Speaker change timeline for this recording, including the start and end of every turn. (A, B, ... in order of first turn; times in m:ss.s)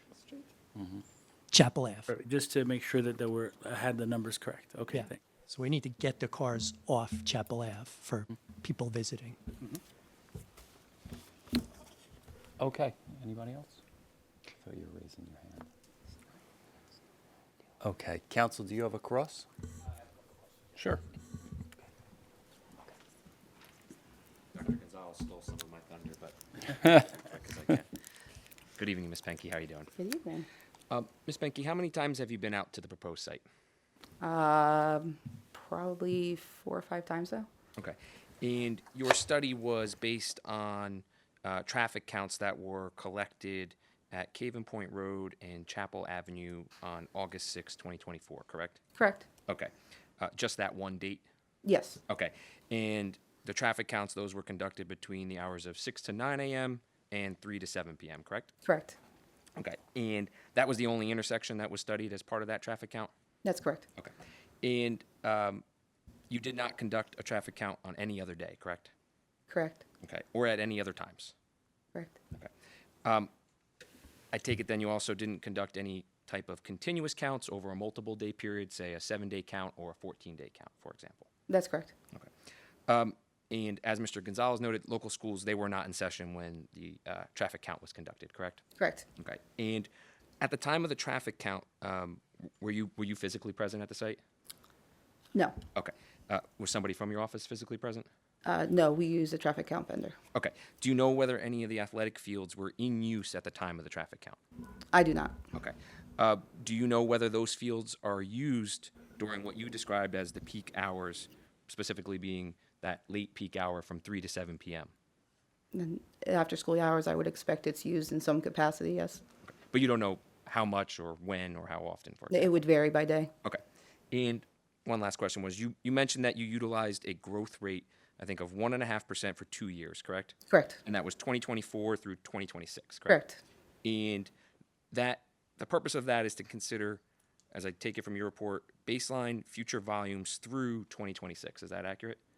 0:01.5-0:02.1 A
0:02.1-0:05.2 B
0:04.9-0:09.4 A
0:12.6-0:13.8 C
0:14.5-0:15.7 C
0:17.8-0:19.4 C
0:24.5-0:27.9 D
0:28.8-0:29.9 D
0:30.0-0:30.5 E
0:30.9-0:33.4 D
0:34.2-0:37.5 E
0:37.8-0:48.8 D
0:49.0-0:49.3 E
0:49.5-0:51.2 D
0:51.6-0:52.0 E
0:52.1-0:58.5 D
0:58.6-0:59.0 E
0:59.6-1:03.1 D
1:03.4-1:03.8 E
1:04.0-1:05.6 D
1:06.3-1:08.9 D
1:09.5-1:09.8 E
1:10.0-1:11.3 D
1:13.0-1:13.3 D
1:14.3-1:21.3 D
1:21.5-1:21.9 E
1:22.9-1:28.6 D
1:28.8-1:29.0 E
1:29.2-1:34.2 D
1:35.7-1:38.1 D
1:38.4-1:40.2 E
1:40.3-1:44.4 D
1:44.9-1:45.4 E
1:45.5-1:54.9 D
1:55.7-1:59.2 E
1:59.7-2:02.5 D
2:02.3-2:03.3 E
2:04.1-2:13.2 D
2:10.5-2:10.8 E
2:13.1-2:13.4 E
2:13.8-2:14.3 D
2:14.9-2:22.2 D